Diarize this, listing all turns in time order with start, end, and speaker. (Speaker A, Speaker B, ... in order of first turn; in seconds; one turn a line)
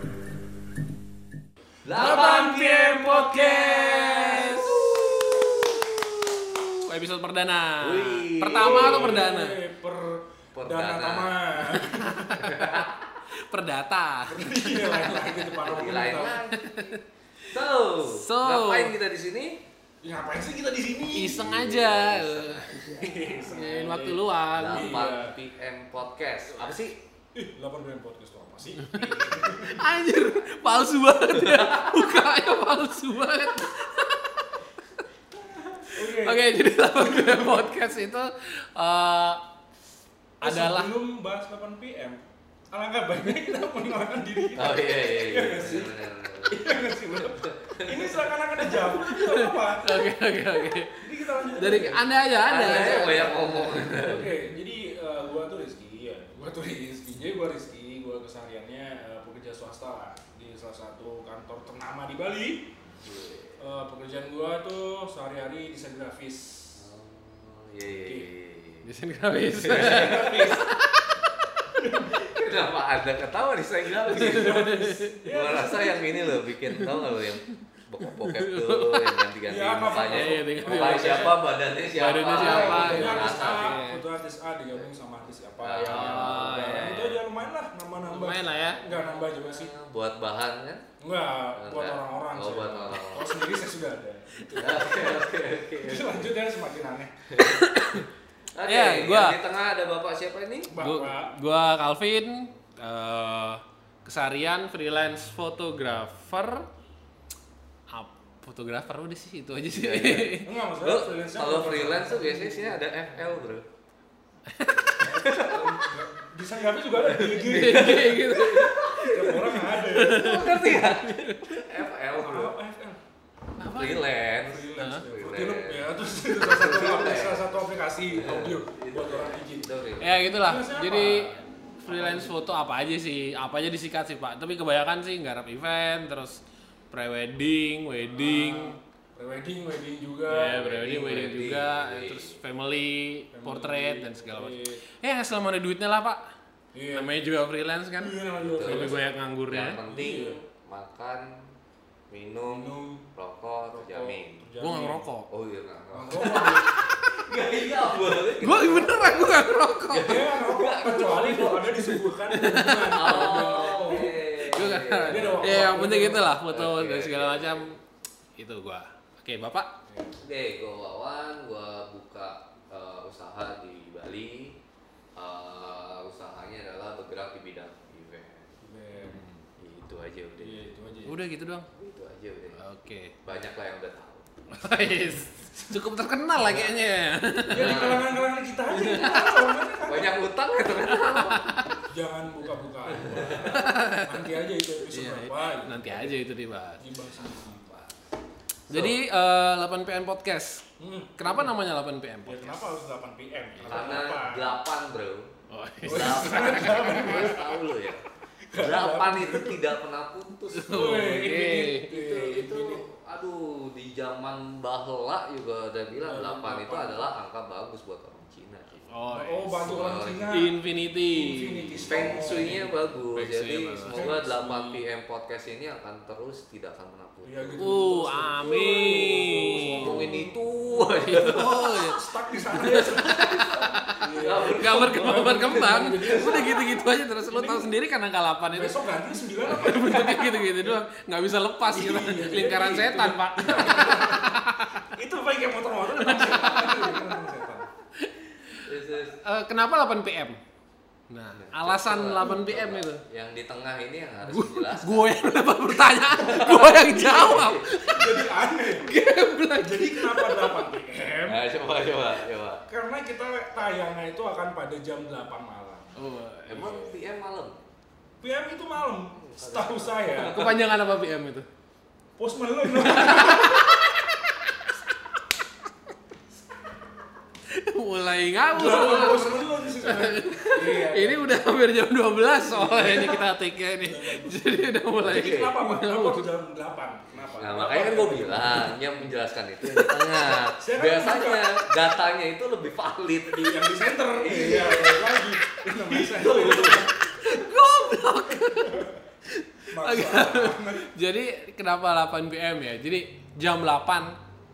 Speaker A: 1.9-5.1
Speaker B: 1.9-4.7
Speaker C: 3.8-5.1
Speaker C: 6.6-9.6
Speaker A: 7.8-9.3
Speaker B: 8.5-12.6
Speaker A: 10.5-11.4
Speaker C: 11.7-12.8
Speaker A: 12.4-12.9
Speaker C: 13.5-15.5
Speaker B: 14.2-16.4
Speaker A: 15.6-19.6
Speaker C: 16.6-17.0
Speaker C: 18.1-18.9
Speaker B: 20.0-21.5
Speaker C: 21.1-25.0
Speaker A: 21.4-23.4
Speaker B: 22.9-25.4
Speaker A: 24.6-27.0
Speaker B: 27.4-29.9
Speaker C: 28.9-34.5
Speaker A: 31.3-32.2
Speaker B: 35.9-37.7
Speaker C: 35.9-39.4
Speaker C: 40.4-41.0
Speaker B: 40.4-50.1
Speaker A: 44.5-48.3
Speaker C: 48.8-54.2
Speaker B: 50.9-62.7
Speaker A: 52.4-54.3
Speaker A: 63.0-63.6
Speaker B: 63.6-66.8
Speaker A: 66.8-68.9
Speaker B: 67.9-68.3
Speaker C: 68.8-71.1
Speaker B: 69.6-70.7
Speaker A: 69.6-70.5
Speaker B: 71.8-72.2
Speaker A: 72.1-83.8
Speaker C: 74.1-75.2
Speaker B: 74.3-76.3
Speaker C: 76.7-77.3
Speaker C: 78.2-79.2
Speaker B: 79.5-81.4
Speaker C: 79.9-84.0
Speaker B: 82.3-89.7
Speaker A: 85.6-87.0
Speaker C: 85.8-87.2
Speaker C: 88.1-88.8
Speaker A: 88.7-90.8
Speaker B: 91.0-97.1
Speaker A: 91.6-93.3
Speaker C: 94.4-94.8
Speaker A: 94.6-96.4
Speaker A: 97.3-97.7
Speaker C: 97.4-98.1
Speaker A: 98.5-100.7
Speaker C: 98.7-99.4
Speaker B: 100.7-101.3
Speaker C: 100.8-106.7
Speaker C: 107.9-110.6
Speaker A: 109.7-113.7
Speaker B: 110.4-113.3
Speaker C: 114.5-115.2
Speaker B: 115.0-118.3
Speaker A: 115.2-116.0
Speaker A: 117.0-122.6
Speaker C: 117.1-121.6
Speaker B: 119.0-120.3
Speaker B: 122.2-123.0
Speaker C: 123.6-124.1
Speaker A: 123.6-127.5
Speaker B: 124.4-129.7
Speaker C: 124.8-125.0
Speaker A: 128.1-130.1
Speaker C: 130.0-136.4
Speaker B: 130.3-132.5
Speaker C: 136.9-138.8
Speaker B: 138.1-140.7
Speaker C: 140.3-146.2
Speaker A: 140.5-142.4
Speaker B: 143.3-144.8
Speaker B: 146.7-147.1
Speaker C: 146.9-149.8
Speaker B: 148.0-149.0
Speaker A: 148.6-151.5
Speaker B: 149.9-150.4
Speaker A: 152.1-154.5
Speaker B: 152.5-153.1
Speaker B: 153.7-155.1
Speaker C: 154.6-155.3
Speaker A: 155.3-161.8
Speaker B: 155.9-156.7
Speaker C: 156.1-156.9
Speaker C: 158.4-160.4
Speaker B: 159.9-164.2
Speaker C: 161.8-167.8
Speaker A: 162.9-167.8
Speaker B: 165.0-166.3
Speaker C: 168.4-169.7
Speaker B: 169.9-170.2
Speaker A: 170.2-174.6
Speaker A: 175.2-178.5
Speaker B: 178.6-179.3
Speaker C: 179.0-179.4
Speaker A: 179.6-180.7
Speaker B: 180.4-181.2
Speaker C: 181.1-181.7
Speaker A: 181.7-182.6
Speaker C: 182.6-183.2
Speaker A: 183.2-184.3
Speaker C: 184.5-188.1
Speaker A: 186.4-186.8
Speaker B: 187.5-190.3
Speaker A: 187.5-188.2
Speaker C: 188.7-189.3
Speaker A: 188.8-191.6
Speaker C: 190.6-191.7
Speaker B: 191.9-196.2
Speaker A: 192.9-193.4
Speaker C: 193.1-194.3
Speaker C: 194.8-196.8
Speaker B: 196.8-197.7
Speaker A: 197.0-197.9
Speaker A: 198.7-198.9
Speaker C: 198.7-200.6
Speaker B: 200.8-201.5
Speaker C: 201.2-202.7
Speaker B: 202.2-204.6
Speaker C: 203.6-204.0
Speaker A: 203.7-205.3
Speaker C: 205.5-207.3
Speaker A: 205.8-211.2
Speaker B: 205.8-207.6
Speaker B: 208.5-209.7
Speaker C: 210.6-211.9
Speaker B: 210.7-212.8
Speaker A: 211.9-218.9
Speaker B: 216.0-217.1
Speaker C: 218.9-219.8
Speaker B: 219.1-220.6
Speaker A: 219.6-220.3
Speaker C: 220.3-222.6
Speaker B: 221.1-222.7
Speaker A: 221.9-227.8
Speaker C: 223.1-224.2
Speaker B: 223.9-224.9
Speaker B: 227.2-237.7
Speaker C: 227.6-230.2
Speaker A: 229.4-231.7
Speaker C: 230.8-244.8
Speaker A: 232.7-236.6
Speaker B: 238.5-240.8
Speaker B: 241.7-247.7
Speaker C: 246.0-247.1
Speaker C: 248.0-250.4
Speaker A: 248.7-249.2
Speaker C: 251.1-253.0
Speaker A: 251.3-255.3
Speaker C: 254.2-260.7
Speaker A: 256.1-257.6
Speaker B: 256.2-258.9
Speaker B: 259.6-262.1
Speaker A: 261.3-262.6
Speaker B: 262.7-267.0
Speaker C: 266.0-266.8
Speaker A: 266.5-267.6
Speaker B: 268.2-270.5
Speaker A: 269.1-270.5
Speaker C: 270.2-271.5
Speaker B: 272.2-273.8
Speaker C: 272.8-274.0
Speaker C: 277.5-286.3
Speaker B: 278.5-281.4
Speaker B: 282.4-288.7
Speaker A: 285.1-285.6
Speaker A: 287.4-295.2
Speaker C: 289.7-290.2
Speaker B: 290.6-291.6
Speaker B: 293.3-296.9
Speaker A: 295.9-296.9
Speaker C: 297.0-304.2
Speaker B: 298.5-298.9
Speaker B: 299.7-300.9